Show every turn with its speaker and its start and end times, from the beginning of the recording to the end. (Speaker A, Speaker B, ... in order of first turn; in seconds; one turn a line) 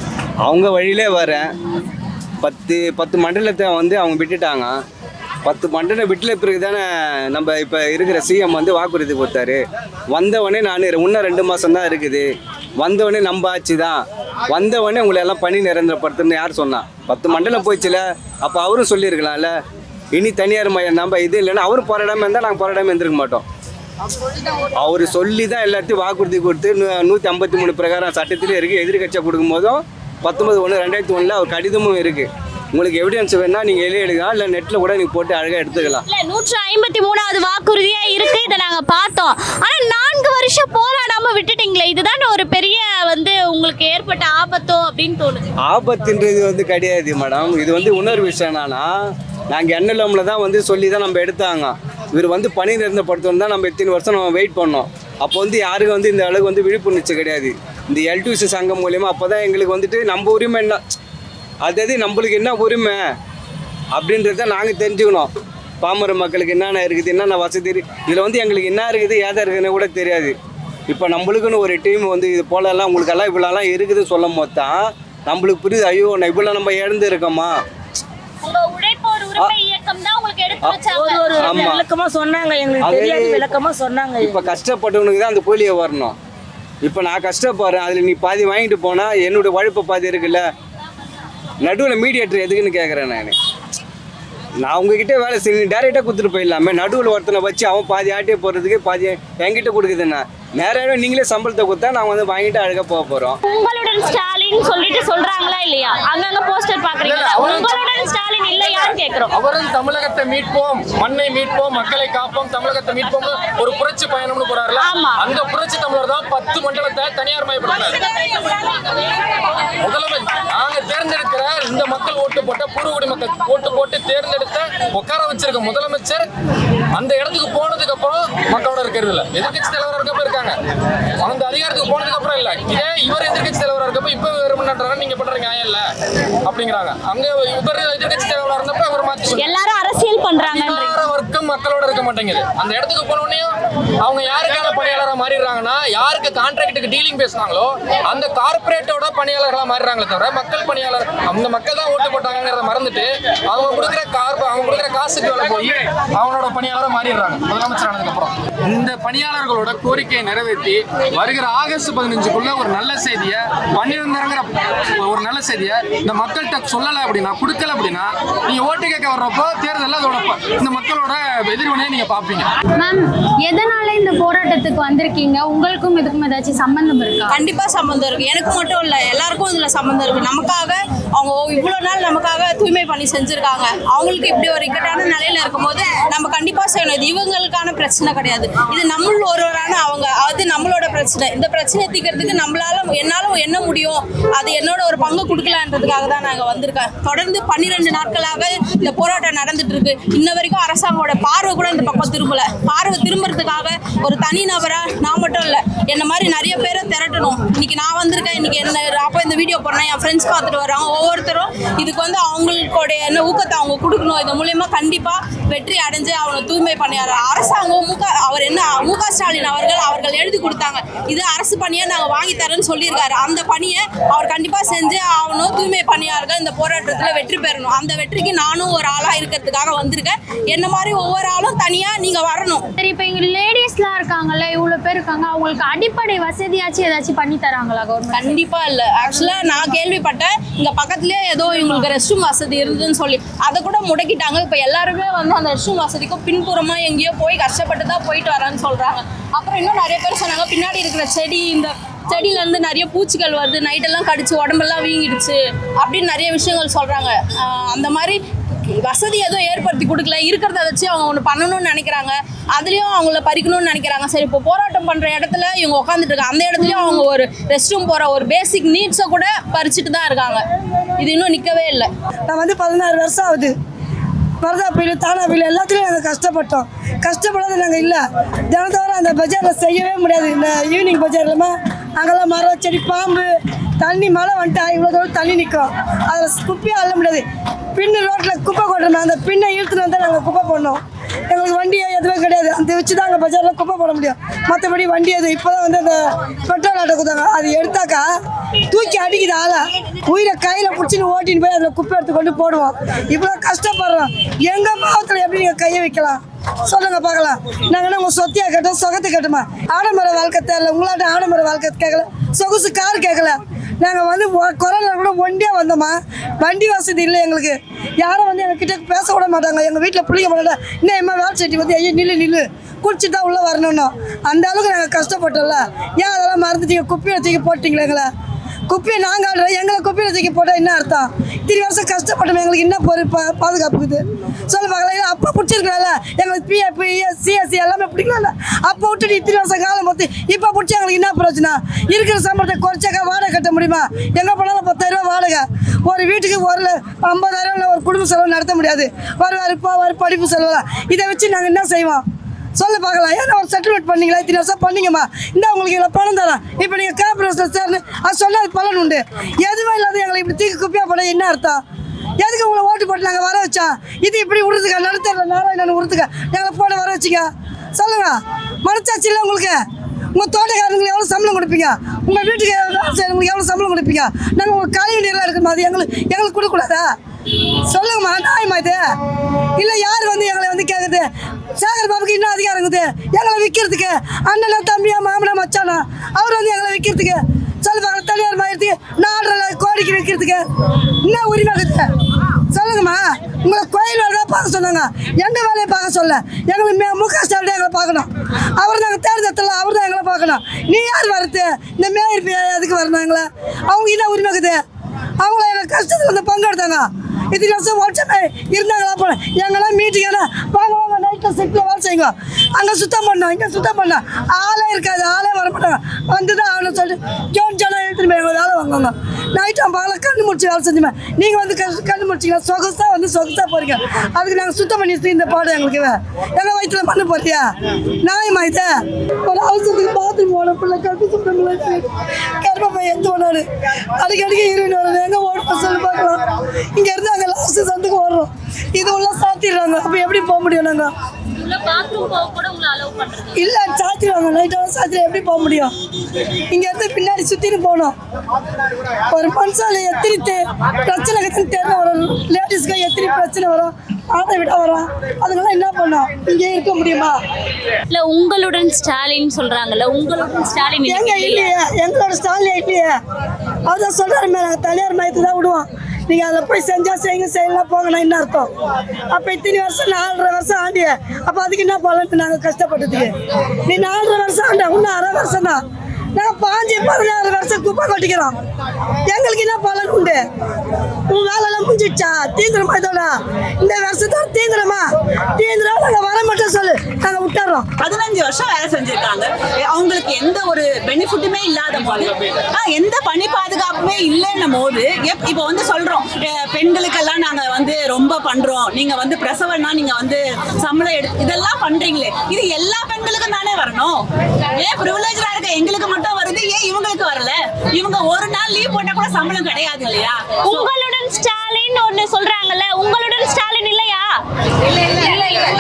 Speaker A: 0.5-1.5
Speaker A: 2.4-4.7
Speaker A: 5.5-19.5
Speaker A: 20.1-23.4
Speaker A: 24.8-36.0
Speaker B: 36.1-45.4
Speaker A: 45.6-48.9
Speaker A: 49.5-60.8
Speaker A: 61.6-63.0
Speaker A: 64.0-65.3
Speaker A: 65.8-70.3
Speaker A: 70.9-77.6
Speaker B: 78.4-81.5
Speaker C: 80.9-84.4
Speaker A: 81.4-81.8
Speaker A: 82.8-83.6
Speaker A: 84.2-86.2
Speaker A: 86.8-90.5
Speaker A: 91.6-93.3
Speaker A: 94.6-103.4
Speaker B: 103.5-109.3
Speaker D: 107.0-107.9
Speaker D: 108.6-118.0
Speaker B: 114.8-115.2
Speaker D: 119.8-126.3
Speaker D: 127.0-130.6
Speaker D: 131.2-135.8
Speaker D: 136.5-139.6
Speaker B: 139.4-141.0
Speaker D: 140.4-143.5
Speaker D: 144.0-172.5
Speaker E: 172.8-177.2
Speaker F: 177.3-232.7
Speaker E: 232.8-238.1
Speaker F: 238.1-270.4
Speaker F: 271.0-271.9
Speaker G: 272.3-273.5
Speaker G: 274.4-287.2
Speaker G: 287.8-298.1
Speaker G: 298.7-328.1
Speaker G: 328.7-352.0
Speaker G: 352.6-361.6
Speaker G: 362.2-369.6
Speaker G: 370.1-376.9
Speaker G: 377.7-378.8
Speaker G: 379.6-390.4
Speaker G: 391.0-391.9
Speaker G: 392.5-404.6
Speaker G: 405.2-427.4
Speaker G: 428.0-428.7
Speaker G: 429.2-431.9
Speaker G: 432.4-433.5
Speaker G: 434.0-436.2
Speaker G: 436.8-440.9
Speaker B: 441.4-443.3
Speaker G: 443.4-445.7
Speaker G: 446.5-447.9
Speaker G: 449.1-457.2
Speaker B: 457.9-461.5
Speaker G: 460.9-463.0
Speaker G: 463.7-468.5
Speaker G: 469.1-473.1
Speaker G: 473.7-475.6
Speaker G: 476.1-478.4
Speaker G: 479.1-480.2
Speaker G: 481.1-484.9
Speaker G: 485.4-487.7
Speaker H: 487.8-504.0
Speaker H: 504.6-510.7
Speaker B: 510.4-514.1